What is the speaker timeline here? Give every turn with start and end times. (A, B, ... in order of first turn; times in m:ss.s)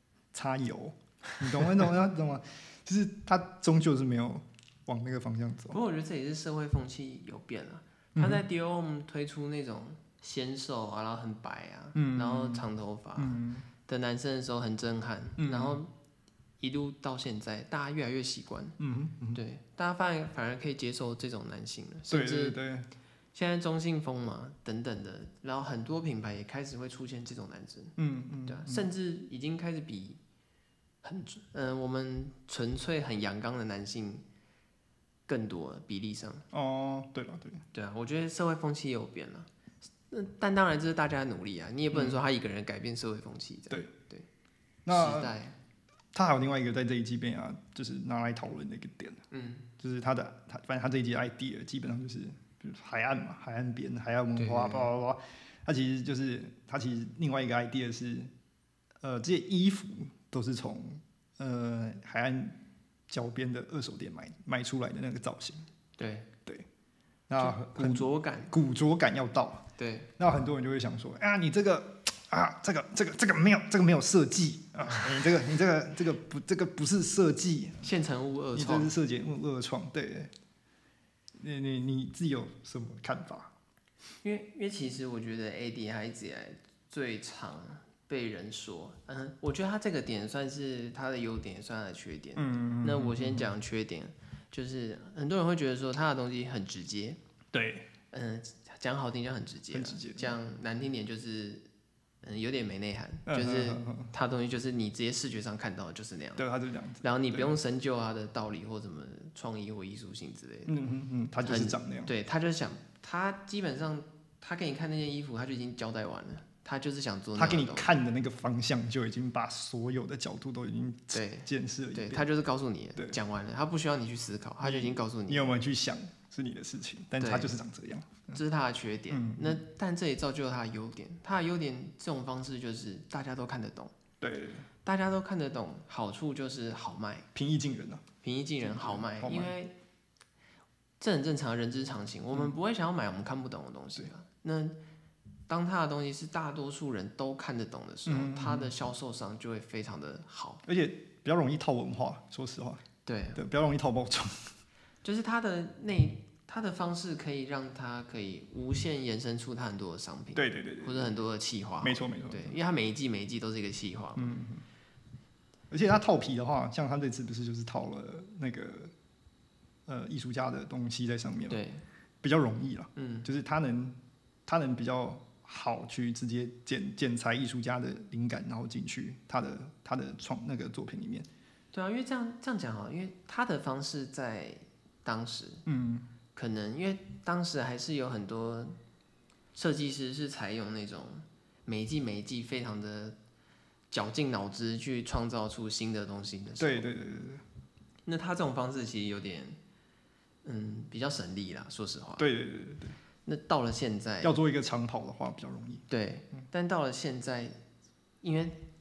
0:00.3-0:05.8 A
0:05.7-0:15.9 B
0:08.2-0:08.4 A
0:11.9-0:12.6 A
0:13.2-0:13.6 A
0:15.4-0:15.8 A
0:16.6-0:18.8 B
0:18.8-0:19.4 A
0:19.3-0:22.6 B
0:22.1-0:22.9 A
0:23.3-0:28.0 B
0:28.0-0:28.9 A
0:28.5-0:30.2 B
0:31.0-0:34.2 B
0:35.3-0:36.4 B
0:36.5-0:37.6 A
0:37.7-0:39.5 B
0:40.1-0:44.2 B
0:41.9-0:42.2 A
0:44.8-0:45.3 A
0:44.9-0:45.6 B
0:46.1-0:49.2 A
0:49.3-0:49.7 B
0:49.8-0:58.3 A
0:54.4-0:54.9 B
0:59.0-1:02.6 A
1:03.1-1:05.6 A
1:06.0-1:06.3 B
1:07.3-1:09.6 A
1:07.4-1:08.5 B
1:09.8-1:10.1 B
1:10.2-1:17.8 A
1:17.8-1:18.9 B
1:18.5-1:20.3 A
1:21.4-1:23.5 A
1:24.2-1:37.2 B
1:32.4-1:33.5 A
1:37.5-1:37.9 A
1:38.1-1:41.7 B
1:39.7-1:40.4 A
1:42.2-1:46.4 B
1:43.3-1:44.1 A
1:46.4-1:47.5 A
1:47.0-1:50.7 B
1:50.7-1:52.1 A
1:51.4-1:57.9 B
1:57.4-2:02.2 A
2:01.1-2:05.6 B
2:04.6-2:08.4 A
2:07.2-2:07.5 B
2:08.3-2:13.9 B
2:09.1-2:09.6 A
2:14.2-2:14.7 A
2:14.8-2:17.3 B
2:17.3-2:18.1 A
2:18.2-2:19.7 B
2:18.6-2:19.5 A
2:21.0-2:24.8 B
2:25.5-2:30.6 B
2:28.1-2:28.7 A
2:30.6-2:32.8 A
2:33.0-2:33.4 B
2:33.3-2:34.5 A
2:35.0-2:44.4 B
2:40.3-2:41.2 A
2:41.8-2:42.6 A
2:44.2-2:44.6 A
2:45.7-2:48.9 A
2:49.9-2:51.6 A
2:51.5-2:51.8 B
2:52.2-3:01.3 A
2:53.0-2:53.3 B
3:01.7-3:05.6 B
3:05.6-3:06.1 A
3:06.3-3:08.8 B
3:09.5-3:13.2 B
3:13.9-3:16.9 B
3:16.6-3:17.4 A
3:18.0-3:19.6 B
3:20.4-3:22.3 B
3:22.2-3:23.0 A
3:23.2-3:24.3 B
3:24.2-3:25.8 A
3:25.9-3:27.6 B
3:28.2-3:28.6 B